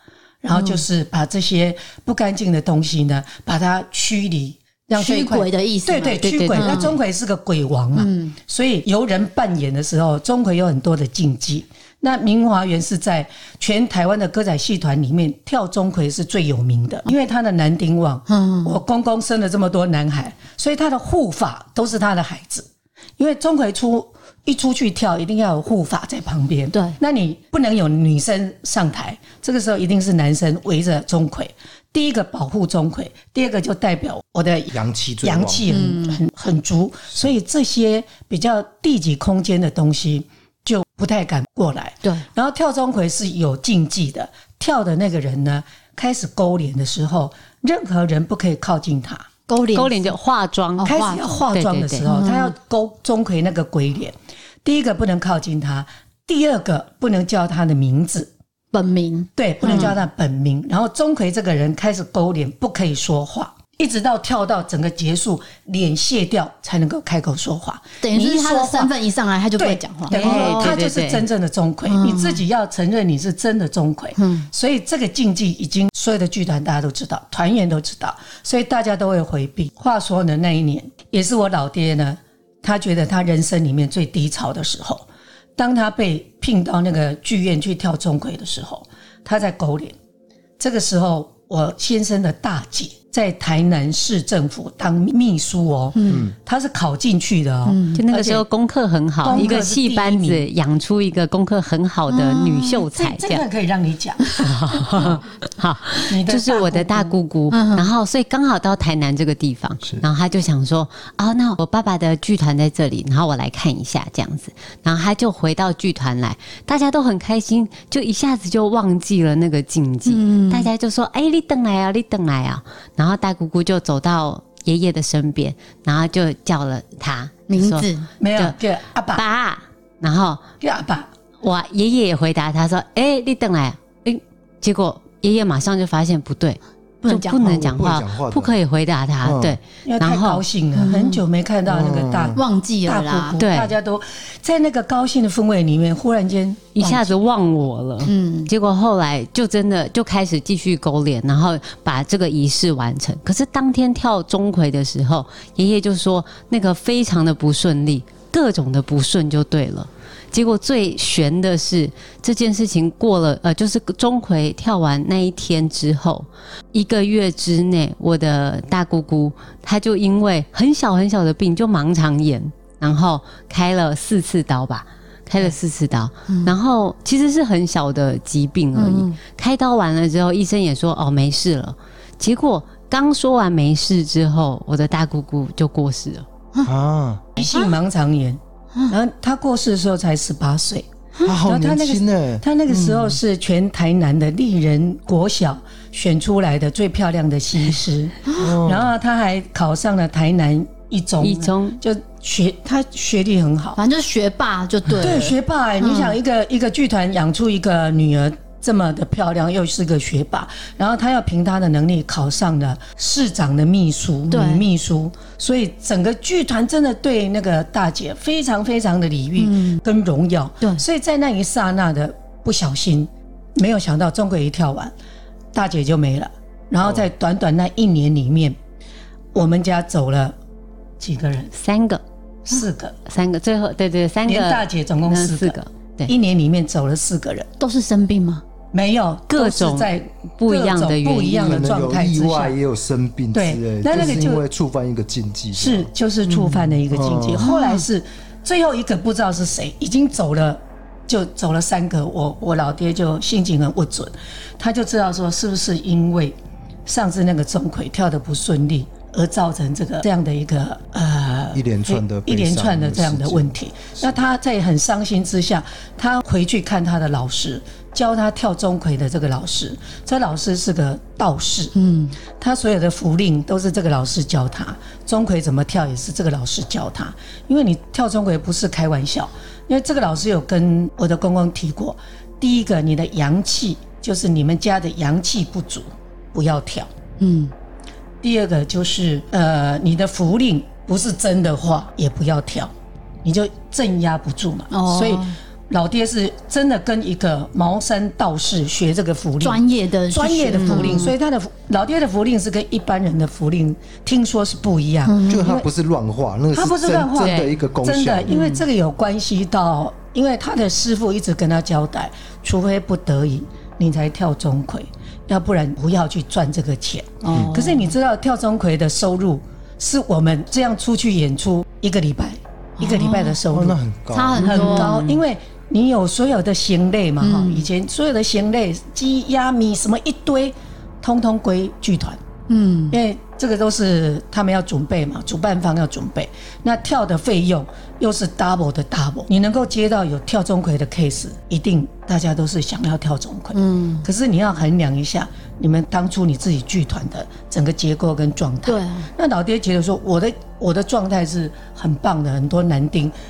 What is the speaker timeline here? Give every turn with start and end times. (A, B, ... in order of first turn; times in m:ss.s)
0:00.4-0:22.7 A
0:00.5-0:00.8 B
0:04.9-0:07.0 B
0:06.2-0:07.0 C
0:08.0-0:08.3 B
0:18.3-0:18.8 B
0:23.2-0:49.3 A
0:34.7-0:35.6 D
0:35.7-0:36.2 B
0:49.5-0:50.1 B
0:49.7-0:51.0 C
0:50.8-0:51.4 B
0:50.8-0:58.3 A
0:51.5-0:52.1 C
0:52.1-0:52.5 B
0:58.7-1:00.0 B
0:59.4-1:08.9 A
1:08.0-1:10.8 B
1:09.6-1:25.1 A
1:10.1-1:11.3 C
1:11.9-1:12.4 B
1:14.2-1:14.5 B
1:25.6-1:30.0 A
1:30.6-1:38.4 A
1:35.9-1:36.2 B
1:36.1-1:36.3 D
1:37.7-1:38.0 B
1:37.9-1:43.4 C
1:39.2-1:40.4 A
1:42.1-1:42.8 B
1:42.8-1:44.3 A
1:44.4-2:08.6 C
1:46.1-1:47.1 A
1:47.5-1:47.9 B
2:00.1-2:00.7 B
2:07.5-2:08.1 B
2:08.2-2:09.2 A
2:09.1-2:10.4 C
2:10.6-2:11.1 A
2:11.4-2:20.4 C
2:17.0-2:17.7 B
2:17.4-2:18.6 D
2:19.2-2:19.6 D
2:19.9-2:26.9 A
2:20.8-2:21.2 B
2:21.7-2:22.4 D
2:22.4-2:23.4 B
2:23.4-2:23.8 C
2:26.8-3:06.3 C
2:26.8-2:27.2 B
2:28.0-2:28.5 B
2:56.3-2:56.5 B
2:58.8-2:59.2 B
3:06.6-3:07.3 D
3:07.4-3:23.8 A
3:07.4-3:07.8 B
3:11.2-3:13.2 D
3:18.4-3:18.9 D
3:21.2-3:21.8 C
3:23.8-3:26.2 B
3:25.0-3:44.9 A
3:34.3-3:34.6 B
3:39.4-3:39.8 B
3:45.5-3:48.6 A
3:49.3-3:50.4 A
3:51.0-3:51.5 A
3:51.6-3:52.0 C
3:52.5-3:53.0 A
3:53.1-3:56.1 C
3:54.3-3:55.6 A
3:56.1-3:57.5 A
3:57.6-3:58.4 B
3:58.7-4:02.6 A
3:59.3-4:01.6 C
4:01.3-4:07.5 D
4:03.3-4:04.4 A
4:05.6-4:31.8 A
4:07.4-4:07.9 B
4:21.5-4:23.5 D
4:31.8-4:32.2 B
4:32.4-4:46.9 A
4:47.2-4:47.5 B
4:48.2-4:52.7 A
4:53.2-5:05.7 A
4:54.7-4:55.4 B
4:59.4-5:01.2 B
5:00.5-5:01.1 C
5:05.1-5:05.6 B
5:05.3-5:08.4 D
5:06.5-5:23.8 A
5:08.3-5:08.6 B
5:17.2-5:18.0 B
5:22.8-5:23.4 B
5:23.5-5:24.7 D
5:24.1-5:25.2 B
5:24.4-5:32.2 A
5:27.2-5:27.7 B
5:32.5-5:33.0 B
5:32.9-5:53.2 A
5:43.5-5:44.1 B
5:48.7-5:49.1 B